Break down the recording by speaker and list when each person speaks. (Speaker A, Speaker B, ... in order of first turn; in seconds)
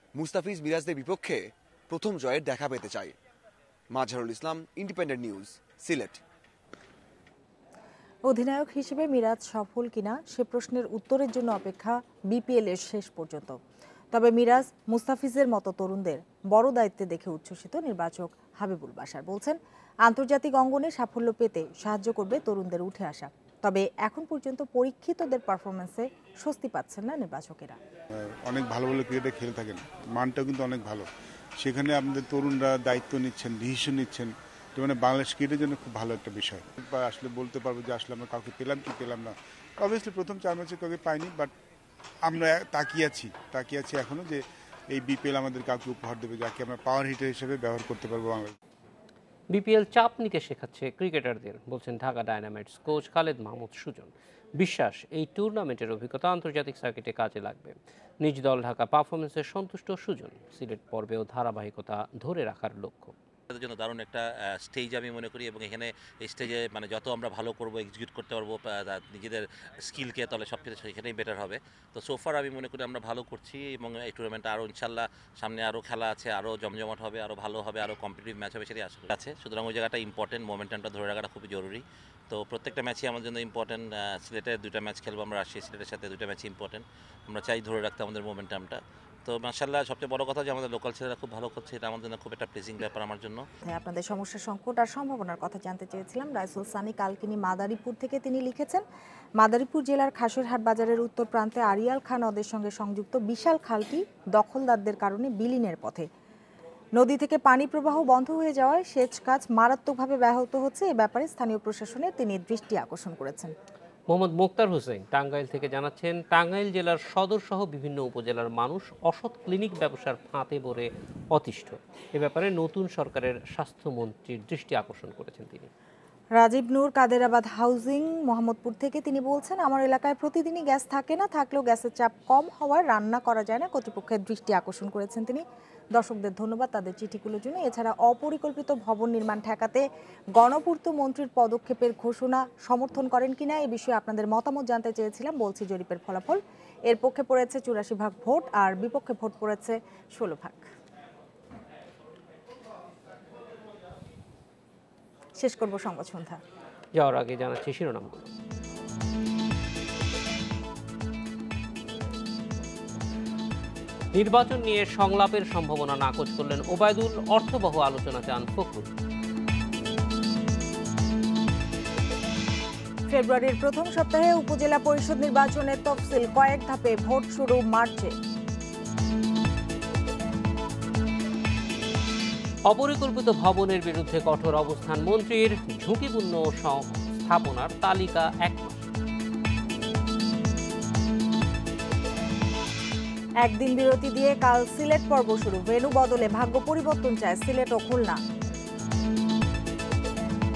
Speaker A: 0.1-3.1, 3.9-6.2
Speaker B: 8.3-13.6, 14.1-27.8, 93.7-98.8, 99.4-106.1, 107.0-113.5, 126.4-139.8, 140.3-150.7, 155.4-156.4, 173.1-178.1, 193.4-198.2
Speaker C: 28.4-31.0, 31.6-39.3, 39.8-41.5, 42.3-44.4, 44.9-48.5
Speaker D: 49.5-63.1, 114.1-125.7, 156.9-158.3, 164.1-168.9, 182.7-188.8
Speaker E: 63.5-81.8, 82.3-88.7, 89.3-93.4